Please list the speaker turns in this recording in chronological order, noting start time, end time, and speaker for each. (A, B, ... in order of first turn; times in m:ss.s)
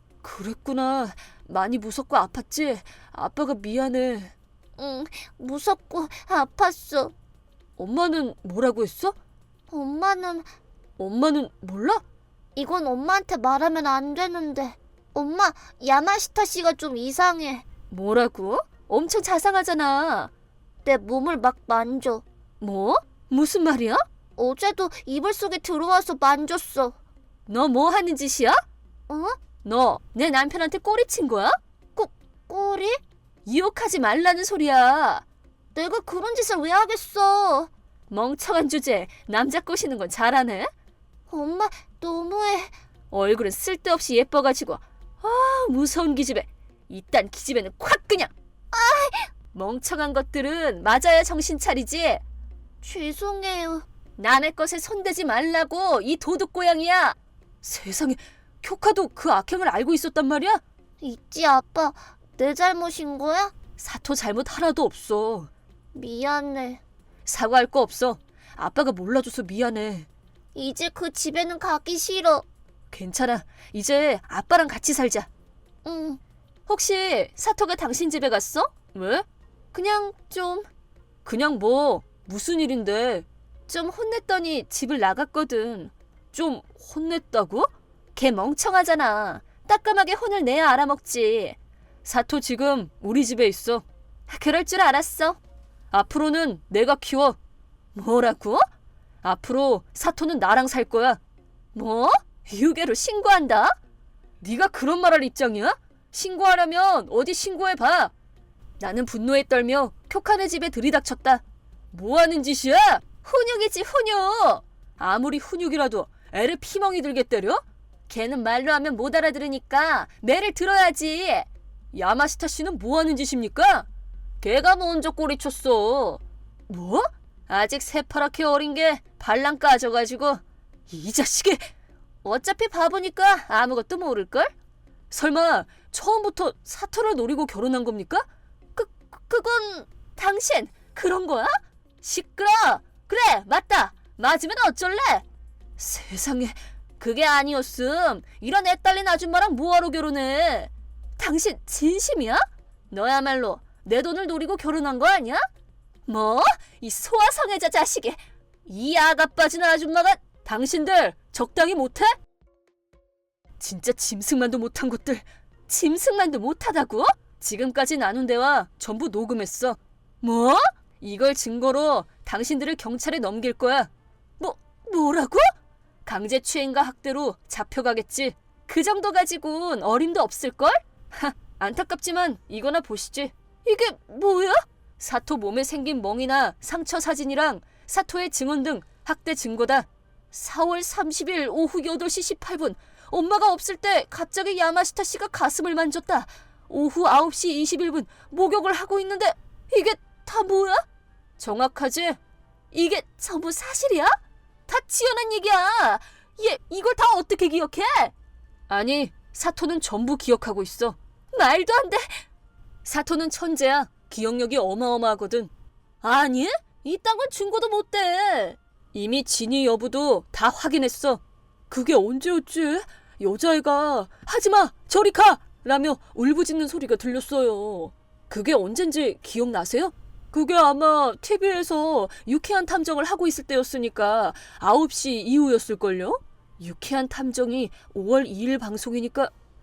0:00.2-0:04.3 A
0:04.8-0:07.1 B
0:07.8-0:09.2 A
0:09.7-0:10.5 B
0:11.0-0:12.0 A
0:12.6-0:17.6 B
0:17.9-0:20.3 A
0:20.8-0:22.2 B
0:22.6-0:24.0 A
0:24.4-0:26.9 B
0:27.4-0:28.6 A
0:29.1-0:29.4 B
0:29.6-0:32.1 A
0:32.0-0:33.0 B
0:33.4-0:35.2 A
0:35.7-0:37.7 B
0:38.1-0:40.7 A
0:41.3-0:42.7 B
0:43.1-0:52.2 A
0:52.8-0:53.8 B
0:54.2-1:00.6 A
1:01.0-1:03.5 B
1:03.8-1:05.5 A
1:05.9-1:06.8 B
1:07.2-1:10.1 A
1:10.5-1:12.4 B
1:12.9-1:15.3 A
1:15.8-1:16.2 B
1:16.7-1:20.7 A
1:21.2-1:35.4 A
1:35.9-1:37.4 A
1:37.9-1:38.6 A
1:39.2-1:41.2 A
1:41.7-1:43.7 A
1:44.4-1:48.1 A
1:48.8-2:03.9 A
2:04.4-2:11.7 A
2:12.2-2:14.5 A
2:15.1-2:25.2 A
2:25.8-2:35.4 A
2:36.0-2:42.1 A
2:43.6-2:55.4 A
2:56.0-3:20.8 A
3:21.4-3:22.2 A
3:22.7-3:24.1 A
3:24.7-3:28.1 A
3:28.7-3:32.2 A
3:32.8-3:35.5 A
3:36.0-3:59.3 A